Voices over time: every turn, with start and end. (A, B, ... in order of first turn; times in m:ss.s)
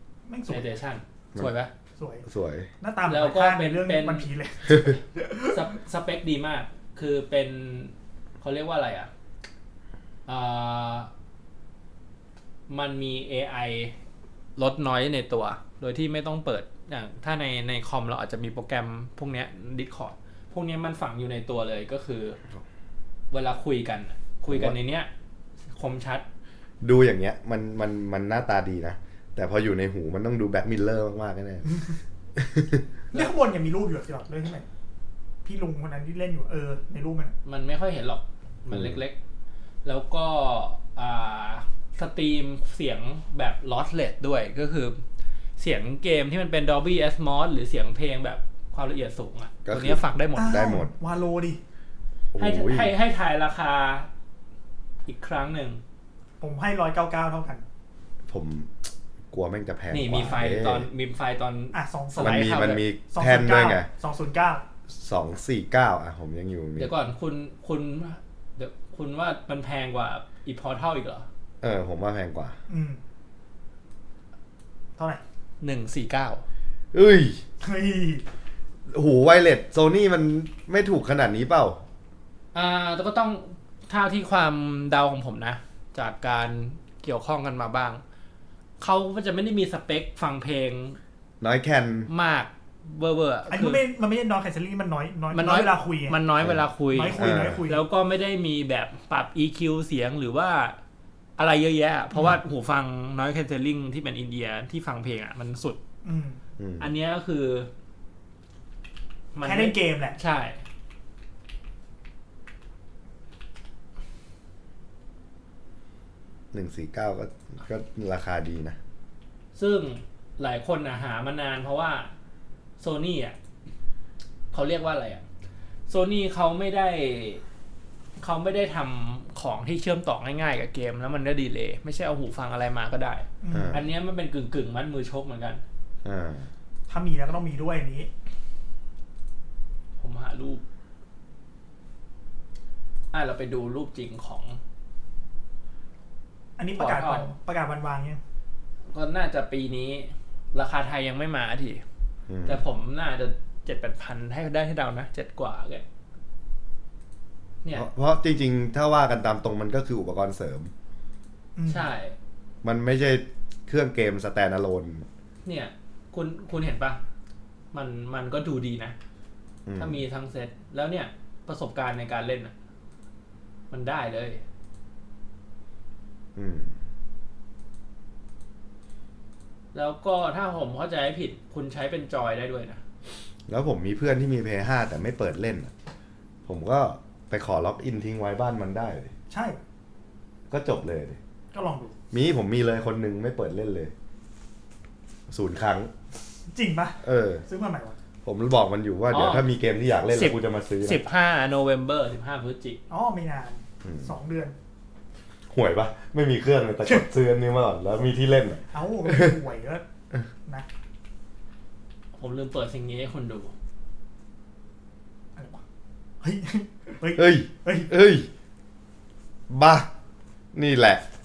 0:00.3-0:00.7 A
0:00.5-0:01.7 B
0:02.0-0:02.2 A
0:02.3-0:02.7 C
0:02.8-0:05.7 A
0:03.1-0:04.3 B
0:04.7-0:05.0 C
0:05.4-0:09.1 B
0:10.3-0:11.1 B
0:12.7-0:14.0 B
0:14.6-0:22.4 B
0:23.3-0:25.1 B
0:24.5-0:24.8 C
0:25.7-0:26.2 B
0:26.8-0:31.7 C
0:32.4-0:32.9 C
0:33.1-0:34.7 A
0:35.4-0:37.4 A
0:37.4-0:39.2 B
0:38.7-0:39.0 C
0:39.8-0:45.0 B
0:45.6-0:50.6 B
0:49.6-0:50.9 C
0:50.4-0:51.6 A
0:52.3-0:52.9 C
0:52.4-0:54.1 B
0:55.1-0:55.8 B
0:56.4-0:57.6 A
0:58.3-0:58.7 C
0:59.3-1:00.9 C
0:59.9-1:02.8 B
1:01.7-1:02.5 A
1:02.2-1:03.9 C
1:03.1-1:04.6 A
1:04.9-1:06.9 C
1:06.8-1:11.3 B
1:11.6-1:12.6 C
1:12.7-1:13.0 A
1:15.6-1:16.4 B
1:16.9-1:17.4 C
1:17.6-1:18.2 A
1:18.9-1:21.8 C
1:22.5-1:28.0 B
1:28.8-1:31.0 B
1:31.4-1:32.1 C
1:32.1-1:33.8 B
1:33.5-1:36.2 A
1:35.3-1:40.8 B
1:36.9-1:37.8 A
1:37.2-1:37.6 C
1:41.4-1:45.8 B
1:46.0-1:46.4 A
1:46.6-1:46.9 C
1:46.8-1:47.7 B
1:49.4-1:50.6 B
1:49.4-1:50.2 A
1:56.5-1:58.8 C
1:59.6-2:02.1 B
2:02.8-2:03.4 B
2:04.5-2:05.2 B
2:05.9-2:07.4 B
2:08.2-2:15.6 B
2:13.4-2:13.8 A
2:13.5-2:13.9 C
2:16.0-2:16.5 C
2:16.9-2:18.1 A
2:20.0-2:20.6 B
2:23.1-2:24.6 B
2:26.6-2:28.2 A
2:26.8-2:27.3 B
2:28.9-2:31.8 B
2:32.3-2:32.6 C
2:32.5-2:35.8 B
2:37.7-2:40.7 C
2:41.6-2:41.9 A
2:41.7-2:42.2 B
2:42.6-2:45.1 C
2:45.4-2:47.0 B
2:47.7-2:49.0 B
2:49.7-2:50.0 C
2:49.8-2:52.5 B
2:53.7-2:54.4 B
2:56.4-2:56.8 C
2:59.7-3:02.8 B
3:03.5-3:05.7 C
3:06.5-3:09.1 C
3:09.3-3:09.6 A
3:10.5-3:11.2 C
3:11.5-3:12.0 A
3:12.1-3:13.9 C
3:15.3-3:15.9 C
3:16.5-3:18.0 A
3:17.0-3:17.4 C
3:18.2-3:21.0 C
3:19.1-3:19.4 B
3:20.1-3:22.8 B
3:22.9-3:24.6 A
3:23.8-3:24.1 C
3:25.5-3:29.4 C
3:28.7-3:29.8 A
3:32.2-3:33.5 B
3:35.4-3:35.6 A
3:36.2-3:37.9 A
3:37.2-3:38.3 C
3:39.5-3:39.9 C
3:40.5-3:41.0 C